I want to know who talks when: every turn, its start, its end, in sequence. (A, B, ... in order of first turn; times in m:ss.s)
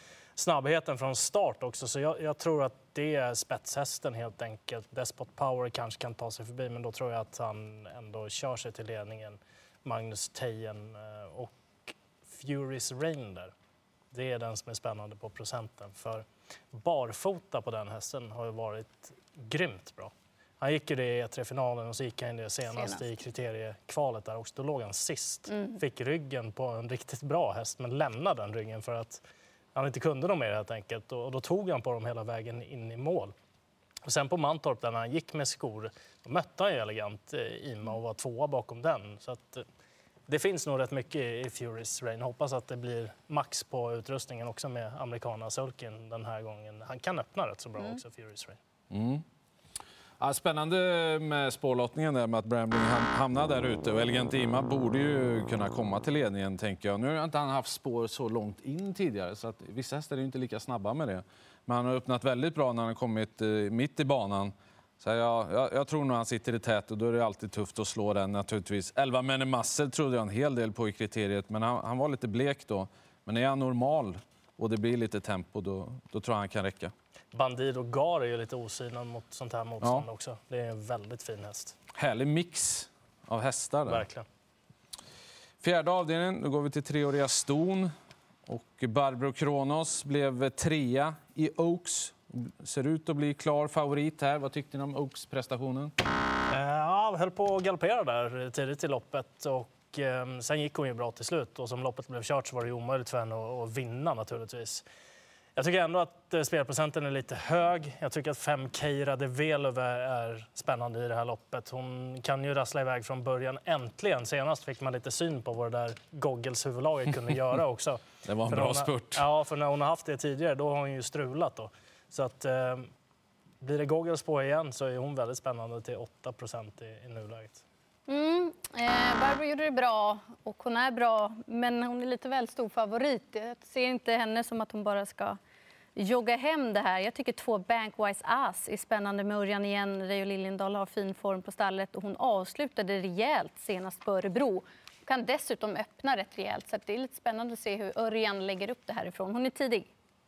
0:00.4-0:13.5 A
0:14.1-0:29.2 A
0:22.7-0:23.0 B
0:25.5-0:25.8 B
0:29.8-0:33.3 A
0:34.0-0:39.6 A
0:40.3-0:48.6 A
0:48.9-0:49.2 C
0:50.2-1:16.9 C
1:17.3-1:21.8 A
1:22.0-1:24.1 C
1:23.9-1:24.3 A
1:25.6-1:27.9 C
1:28.5-1:35.9 C
1:36.5-1:44.8 A
1:45.6-2:02.9 A
1:58.2-1:59.2 C
2:03.6-2:07.6 A
2:08.1-2:15.4 B
2:16.0-2:29.9 B